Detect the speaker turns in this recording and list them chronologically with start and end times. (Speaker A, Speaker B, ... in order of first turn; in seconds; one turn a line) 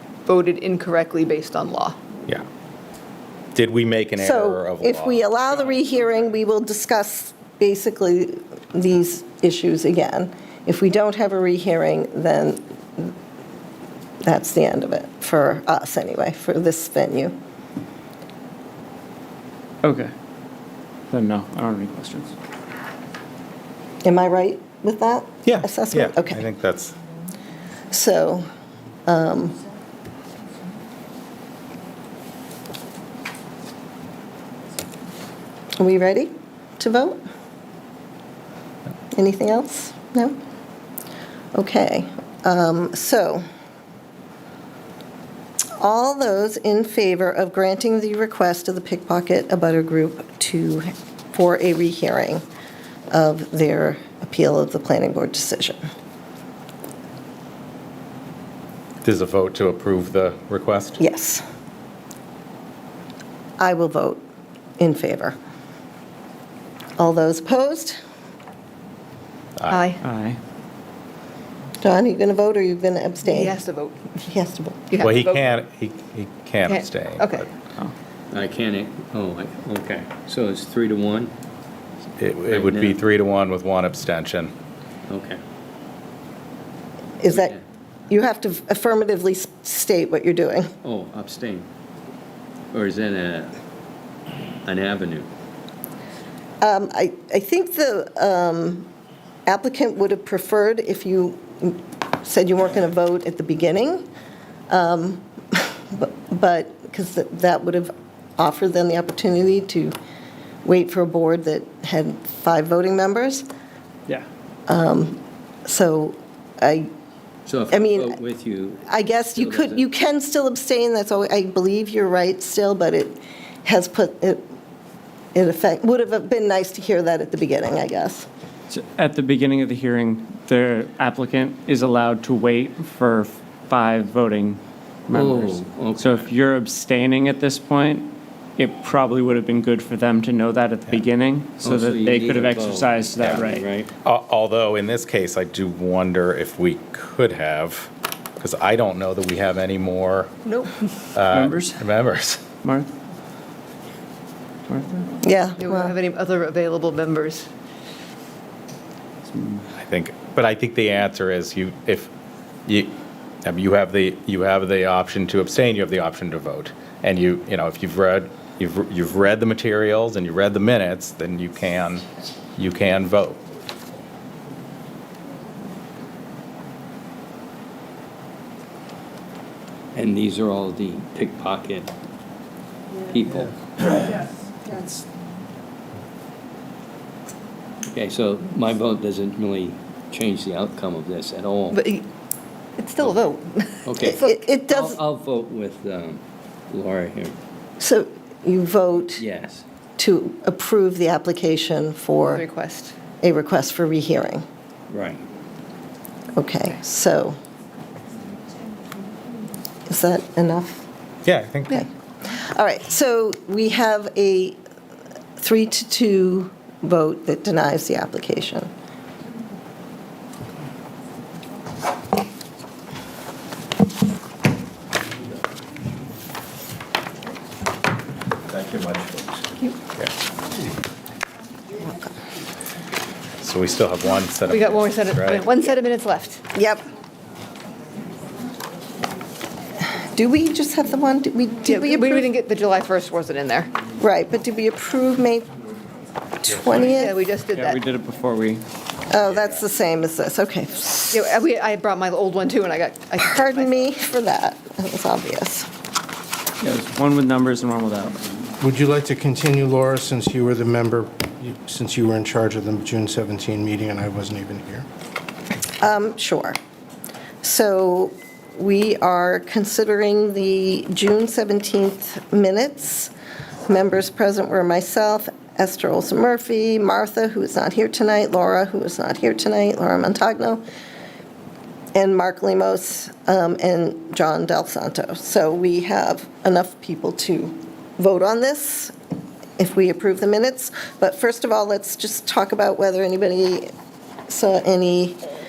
Speaker A: 0.2-1.9
Speaker B: 3.5-5.2
Speaker C: 4.2-13.1
Speaker C: 14.2-17.4
Speaker D: 19.8-20.1
Speaker D: 21.1-22.3
Speaker C: 24.0-26.4
Speaker B: 25.4-26.9
Speaker C: 27.9-28.4
Speaker C: 29.1-29.6
Speaker C: 35.8-37.2
Speaker C: 39.1-40.4
Speaker C: 41.5-43.4
Speaker C: 45.8-52.4
Speaker C: 53.1-55.8
Speaker B: 59.0-61.0
Speaker C: 61.0-61.4
Speaker C: 63.6-64.2
Speaker C: 64.8-65.3
Speaker C: 67.0-68.0
Speaker B: 69.6-69.8
Speaker A: 69.7-70.0
Speaker D: 70.0-70.4
Speaker C: 71.8-73.5
Speaker A: 73.2-74.1
Speaker C: 74.2-74.9
Speaker A: 74.9-75.5
Speaker B: 75.0-77.4
Speaker A: 76.6-77.5
Speaker E: 78.3-81.3
Speaker B: 82.2-84.5
Speaker E: 82.5-83.0
Speaker E: 85.1-85.4
Speaker C: 87.2-87.5
Speaker E: 87.3-87.6
Speaker C: 88.1-90.7
Speaker E: 90.8-91.7
Speaker E: 92.7-93.5
Speaker E: 94.6-95.3
Speaker C: 96.6-98.9
Speaker C: 99.5-104.1
Speaker C: 104.7-110.0
Speaker C: 110.6-113.5
Speaker C: 114.7-116.9
Speaker E: 117.5-119.8
Speaker C: 117.7-118.2
Speaker C: 118.8-124.4
Speaker C: 125.3-128.3
Speaker D: 128.7-143.7
Speaker E: 135.1-136.3
Speaker E: 141.6-143.9
Speaker B: 144.0-150.3
Speaker A: 150.4-150.7
Speaker B: 151.1-152.4
Speaker D: 151.3-151.8
Speaker D: 152.6-152.9
Speaker C: 155.2-155.9
Speaker A: 155.6-157.5
Speaker D: 159.3-159.6
Speaker B: 159.7-162.1
Speaker B: 162.7-162.9
Speaker B: 163.4-172.0
Speaker B: 172.6-173.4
Speaker E: 179.9-181.9
Speaker E: 183.1-183.8
Speaker E: 187.9-191.8
Speaker A: 191.7-192.1
Speaker A: 192.8-194.1
Speaker E: 193.8-197.3
Speaker C: 194.0-195.0
Speaker C: 197.8-199.2
Speaker E: 199.2-199.6
Speaker C: 200.0-202.4
Speaker A: 202.3-202.9
Speaker C: 203.2-204.4
Speaker E: 204.9-205.2
Speaker C: 206.3-207.4
Speaker C: 209.9-210.8
Speaker B: 211.2-211.8
Speaker C: 211.7-214.6
Speaker C: 215.4-218.7
Speaker E: 228.5-229.4
Speaker B: 233.4-235.5
Speaker A: 234.5-236.4
Speaker C: 236.5-236.8
Speaker C: 240.1-242.3
Speaker A: 241.6-243.7
Speaker C: 244.0-245.5
Speaker C: 246.4-247.2
Speaker A: 246.7-247.8
Speaker D: 247.5-248.6
Speaker C: 249.1-251.2
Speaker A: 251.1-253.9
Speaker C: 253.2-255.7
Speaker D: 256.6-258.2
Speaker F: 258.6-264.9
Speaker C: 265.8-266.6
Speaker C: 267.4-273.1
Speaker C: 273.7-280.6
Speaker C: 281.9-288.9
Speaker C: 289.6-293.7
Speaker C: 294.3-295.2